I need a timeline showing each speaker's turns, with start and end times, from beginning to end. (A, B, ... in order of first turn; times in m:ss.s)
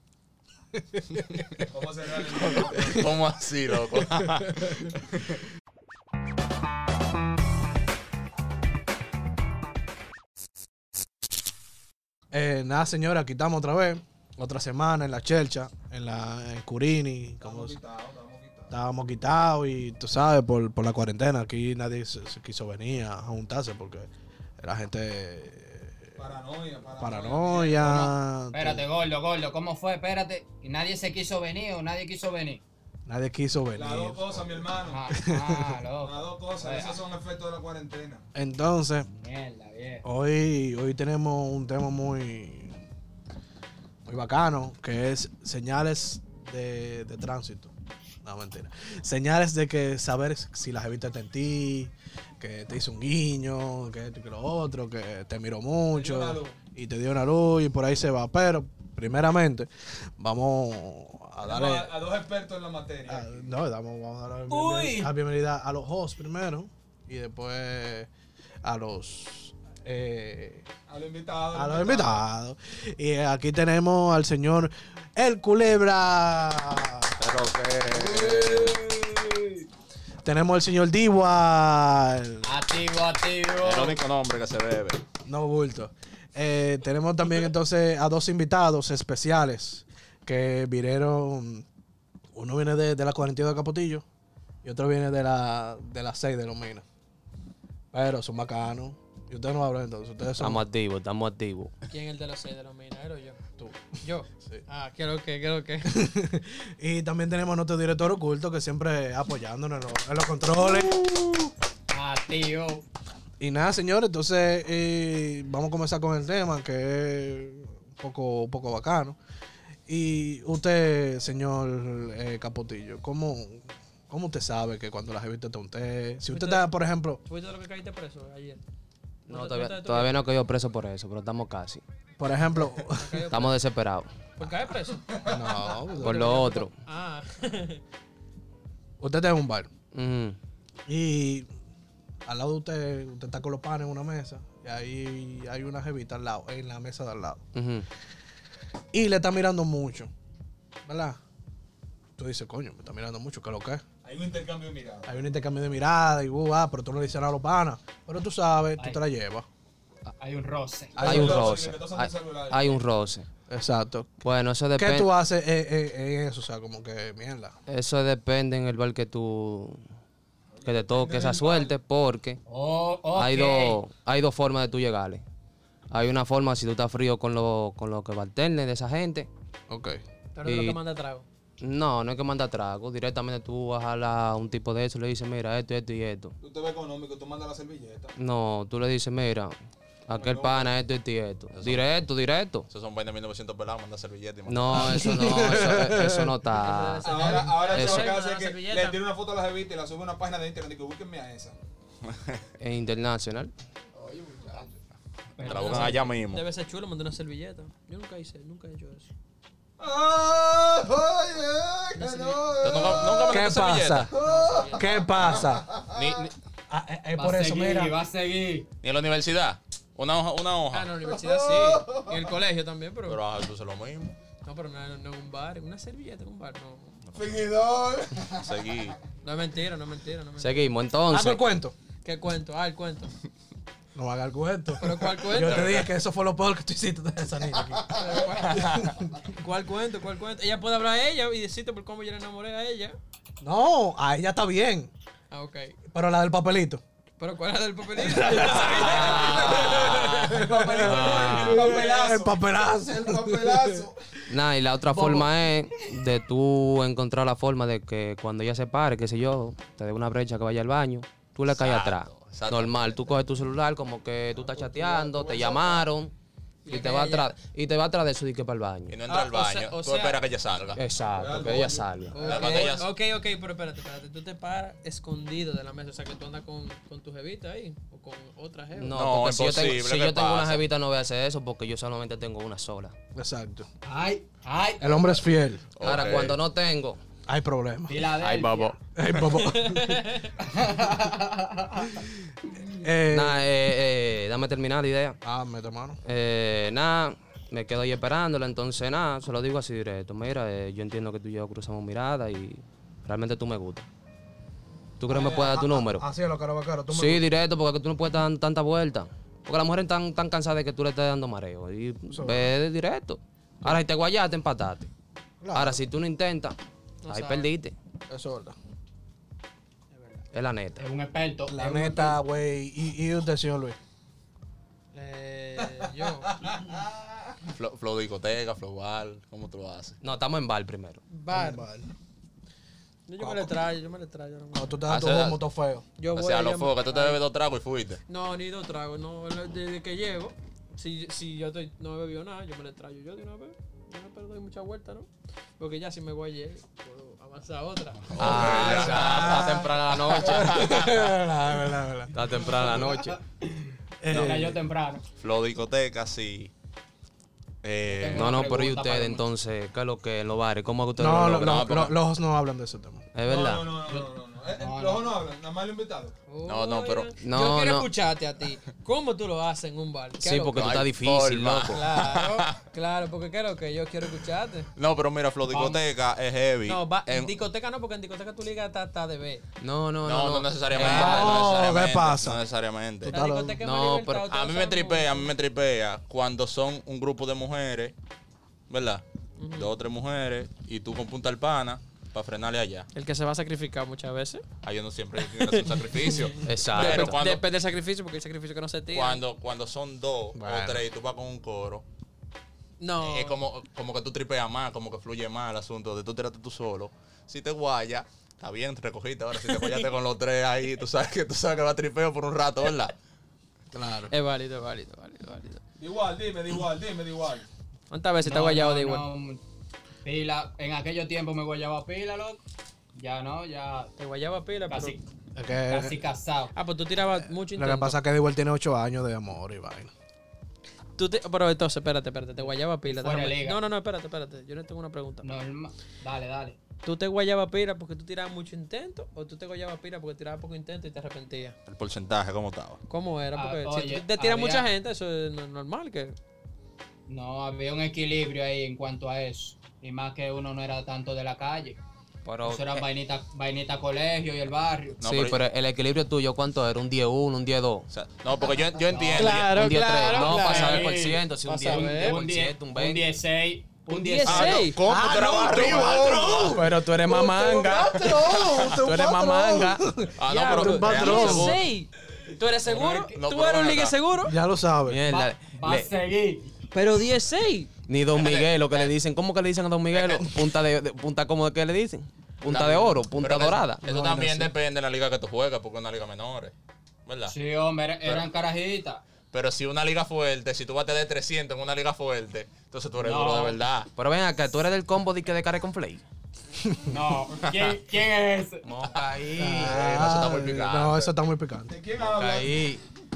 0:00.7-0:01.6 A
0:01.6-0:03.1 B
0:02.4-0:03.0 A
0:02.6-0:05.4 C
0:04.2-0:04.8 A
0:12.3-0:17.8 A
0:17.4-0:18.7 B
0:18.7-0:26.0 A
0:26.2-0:28.1 B
0:27.0-0:28.8 A
0:27.8-0:32.6 D
0:33.1-0:34.6 A
0:33.7-0:35.0 B
0:34.9-0:37.0 D
0:35.1-0:35.8 A
0:36.0-0:38.3 B
0:38.3-0:39.1 A
0:39.2-0:40.0 D
0:40.0-0:42.8 A
0:44.0-0:47.7 A
0:48.2-1:01.9 A
0:55.9-0:56.6 B
1:01.4-1:03.5 B
1:03.1-1:08.1 A
1:04.5-1:05.1 E
1:08.6-1:10.7 A
1:10.9-1:12.2 B
1:11.5-1:17.2 A
1:17.2-1:18.8 C
1:17.9-1:19.6 D
1:20.2-1:22.5 A
1:22.4-1:24.0 D
1:23.6-1:25.0 C
1:25.2-1:31.6 A
1:32.3-1:34.0 A
1:34.6-1:36.8 A
1:37.9-1:40.6 A
1:40.4-1:41.7 F
1:41.9-1:43.4 E
1:43.6-1:44.6 A
1:44.0-1:45.9 E
1:45.8-1:51.1 A
1:51.9-1:52.8 D
1:53.4-1:59.2 A
1:59.9-2:07.2 A
2:06.2-2:06.7 E
2:07.2-2:08.6 E
2:09.3-2:11.8 F
2:09.3-2:10.2 E
2:12.2-2:13.3 A
2:12.9-2:13.6 E
2:13.3-2:14.1 F
2:14.4-2:15.0 E
2:15.1-2:15.6 B
2:15.2-2:16.4 A
2:16.0-2:16.7 F
2:16.0-2:17.8 E
2:19.0-2:19.7 A
2:19.9-2:20.4 F
2:20.9-2:21.5 A
2:22.2-2:27.4 A
2:27.5-2:27.8 F
2:28.9-2:30.1 A
2:30.8-2:31.2 A
2:32.2-2:33.8 A
2:34.0-2:35.2 B
2:35.0-2:39.4 A
2:40.2-2:41.3 D
2:40.9-2:42.8 B
2:41.0-2:41.6 A
2:41.0-2:43.3 F
2:43.5-2:44.2 A
2:44.2-2:45.1 F
2:44.7-2:47.5 A
2:47.7-2:49.8 F
2:50.5-2:51.7 B
2:50.6-2:52.4 F
2:52.5-2:53.8 D
2:53.1-2:55.2 F
2:55.9-2:59.3 F
2:59.7-3:00.0 A
3:00.3-3:01.2 E
3:00.4-3:00.8 F
3:01.6-3:06.4 F
3:06.4-3:08.1 B
3:08.2-3:09.5 F
3:10.1-3:12.7 F
3:10.1-3:10.7 B
3:11.5-3:11.9 C
3:12.7-3:15.2 C
3:14.5-3:18.1 F
3:14.8-3:16.3 A
3:16.5-3:19.0 E
3:17.0-3:21.6 B
3:22.1-3:22.4 C
3:22.6-3:23.5 F
3:23.9-3:24.7 B
3:25.4-3:26.4 C
3:25.4-3:29.1 E
3:25.4-3:26.0 D
3:29.8-3:33.4 B
3:31.9-3:32.8 E
3:32.6-3:34.1 C
3:33.1-3:34.1 A
3:34.1-3:36.2 B
3:34.1-3:35.1 E
3:34.7-3:35.7 A
3:35.9-3:36.3 C
3:36.7-3:38.0 A
3:37.2-3:38.7 D
3:38.8-3:40.9 C
3:40.7-3:43.2 E
3:41.0-3:42.3 B
3:43.0-3:44.2 C
3:44.4-3:47.0 E
3:47.1-3:48.7 B
3:47.1-3:47.4 C
3:48.3-3:49.0 C
3:49.2-3:50.7 E
3:50.4-3:51.5 F
3:51.1-3:51.7 A
3:52.0-3:53.1 E
3:53.9-3:58.0 A
3:54.8-3:55.7 E
3:55.4-3:55.9 C
3:57.8-3:58.1 B
3:57.9-3:58.7 E
3:58.2-3:59.0 C
3:59.3-4:03.0 E
4:03.4-4:04.9 A
4:05.3-4:05.8 E
4:05.9-4:06.8 A
4:07.2-4:11.4 E
4:08.0-4:13.8 A
4:08.8-4:10.3 C
4:09.0-4:14.0 B
4:10.8-4:11.8 F
4:14.3-4:26.1 F
4:14.9-4:15.3 D
4:21.5-4:23.0 C
4:24.5-4:25.8 B
4:26.6-4:27.3 E
4:26.7-4:29.0 F
4:28.9-4:30.8 C
4:29.1-4:30.2 E
4:30.7-4:32.4 F
4:31.1-4:32.6 B
4:32.1-4:39.0 E
4:32.1-4:32.9 C
4:38.8-4:42.9 F
4:38.9-4:40.6 C
4:43.1-4:43.7 A
4:43.8-4:45.2 D
4:44.8-4:45.8 A
4:45.8-4:46.4 C
4:45.8-4:47.0 F
4:47.3-4:48.1 A
4:47.9-4:48.8 D
4:48.2-4:48.8 F
4:48.9-4:50.2 A
4:49.1-4:50.3 E
4:50.4-4:52.0 D
4:51.9-4:52.1 A
4:52.8-4:53.4 A
4:53.1-4:55.2 F
4:55.2-4:56.0 A
4:56.0-5:03.9 F
5:05.0-5:06.1 F
5:05.1-5:07.3 A
5:06.9-5:14.9 F
5:12.1-5:12.5 A
5:15.4-5:15.8 A
5:15.5-5:16.6 F
5:17.0-5:17.5 E
5:17.1-5:17.7 F
5:18.1-5:18.6 A
5:19.9-5:20.2 E
5:20.3-5:20.8 F
5:20.8-5:22.2 D
5:21.5-5:23.8 A
5:24.9-5:26.3 E
5:26.4-5:27.3 B
5:27.4-5:30.0 C
5:30.0-5:31.0 F
5:31.1-5:31.6 E
5:31.3-5:31.9 A
5:33.1-5:34.8 E
5:33.2-5:33.5 A
5:34.5-5:35.8 A
5:34.9-5:35.4 C
5:36.0-5:37.2 E
5:36.1-5:38.0 C
5:38.1-5:48.7 E
5:48.0-5:51.1 C
5:48.2-5:50.7 F
5:48.2-5:52.8 A
5:52.1-5:53.2 F
5:53.4-5:55.0 D
5:54.0-5:54.6 A
5:55.2-5:56.5 C
5:57.6-5:58.5 C
5:57.8-5:59.3 D
5:58.1-6:01.8 F
6:01.0-6:03.0 A
6:01.3-6:01.9 C
6:03.1-6:03.8 F
6:03.2-6:06.2 B
6:03.9-6:05.2 D
6:06.3-6:10.7 E
6:06.4-6:07.2 C
6:07.2-6:07.9 F
6:10.2-6:11.8 F
6:10.5-6:12.6 C
6:11.7-6:14.7 E
6:14.8-6:17.3 C
6:15.5-6:15.8 D
6:16.6-6:19.4 E
6:19.6-6:21.6 F
6:20.0-6:23.2 C
6:20.8-6:22.4 A
6:23.0-6:25.3 E
6:23.0-6:23.6 A
6:23.6-6:24.3 F
6:24.3-6:27.9 C
6:28.7-6:32.9 C
6:29.4-6:29.8 E
6:32.9-6:34.4 E
6:34.6-6:37.4 C
6:35.2-6:39.2 E
6:36.4-6:37.2 F
6:38.9-6:41.8 C
6:40.3-6:40.8 A
6:42.8-6:43.4 E
6:43.0-6:53.0 C
6:49.3-6:49.9 E
6:53.7-6:54.1 A
6:54.1-6:55.6 E
6:55.8-6:57.5 B
6:57.9-6:59.0 E
6:58.2-6:59.4 D
7:00.0-7:02.4 D
7:03.0-7:03.9 D
7:04.0-7:05.0 E
7:04.7-7:05.0 D
7:05.4-7:06.0 A
7:05.7-7:06.5 D
7:06.5-7:08.0 E
7:07.5-7:09.9 A
7:11.0-7:15.3 E
7:12.8-7:13.6 D
7:15.2-7:16.6 D
7:16.8-7:21.6 E
7:21.7-7:22.8 C
7:22.9-7:26.2 E
7:23.3-7:24.7 D
7:27.1-7:31.8 D
7:32.2-7:32.8 F
7:32.4-7:35.0 D
7:35.0-7:35.4 C
7:35.0-7:37.9 F
7:37.9-7:39.8 C
7:39.1-7:43.0 F
7:39.1-7:42.2 E
7:40.0-7:44.7 D
7:43.9-7:44.8 E
7:44.3-7:46.6 C
7:44.8-7:51.6 A
7:46.4-7:50.0 F
7:50.1-7:51.7 C
7:50.3-7:54.4 E
7:52.6-7:53.2 D
7:53.1-7:54.0 C
7:54.2-7:55.0 A
7:54.8-7:55.9 F
7:55.1-7:56.6 D
7:56.7-7:57.7 E
7:57.9-8:03.8 F
7:58.1-7:58.9 C
7:59.9-8:00.4 C
8:02.4-8:06.5 C
8:03.8-8:04.5 A
8:07.0-8:07.3 C
8:07.3-8:09.0 D
8:09.3-8:13.9 C
8:13.0-8:13.6 D
8:14.0-8:16.0 F
8:16.6-8:16.9 A
8:16.9-8:18.6 D
8:17.4-8:17.7 C
8:18.6-8:20.2 F
8:19.3-8:21.7 A
8:19.5-8:21.1 C
8:21.7-8:22.7 B
8:22.0-8:22.8 F